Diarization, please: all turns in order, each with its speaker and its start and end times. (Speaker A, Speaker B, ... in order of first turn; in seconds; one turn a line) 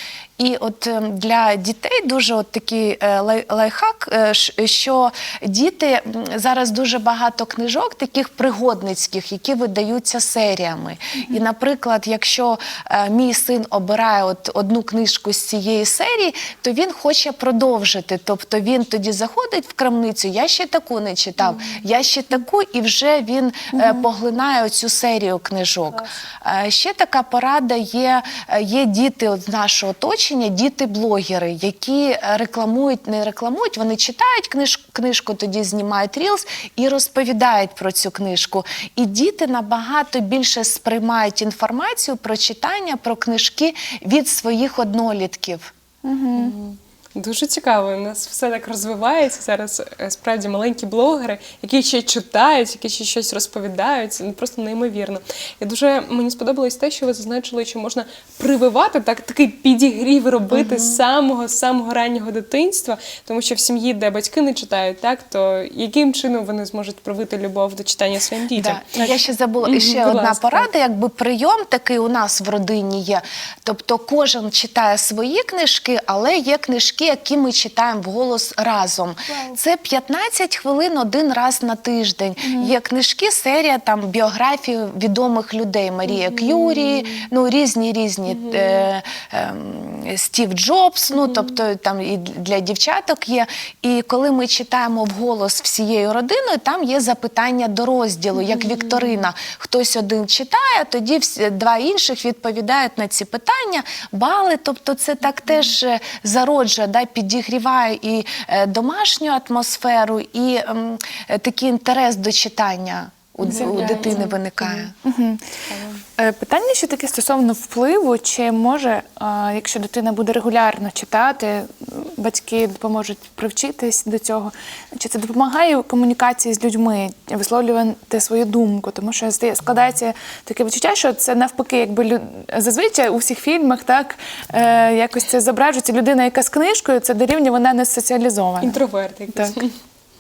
Speaker A: 0.4-45.7
Speaker B: 23.7-24.0
Speaker B: 46.0-46.5
Speaker C: 46.3-70.7
Speaker A: 60.5-61.0
Speaker A: 68.6-114.9
Speaker B: 82.4-82.7
Speaker C: 86.2-87.3
Speaker C: 88.3-88.8
Speaker C: 98.4-99.1
Speaker B: 113.4-115.4
Speaker C: 113.5-114.3
Speaker C: 115.7-116.0
Speaker B: 116.2-138.8
Speaker C: 138.6-139.7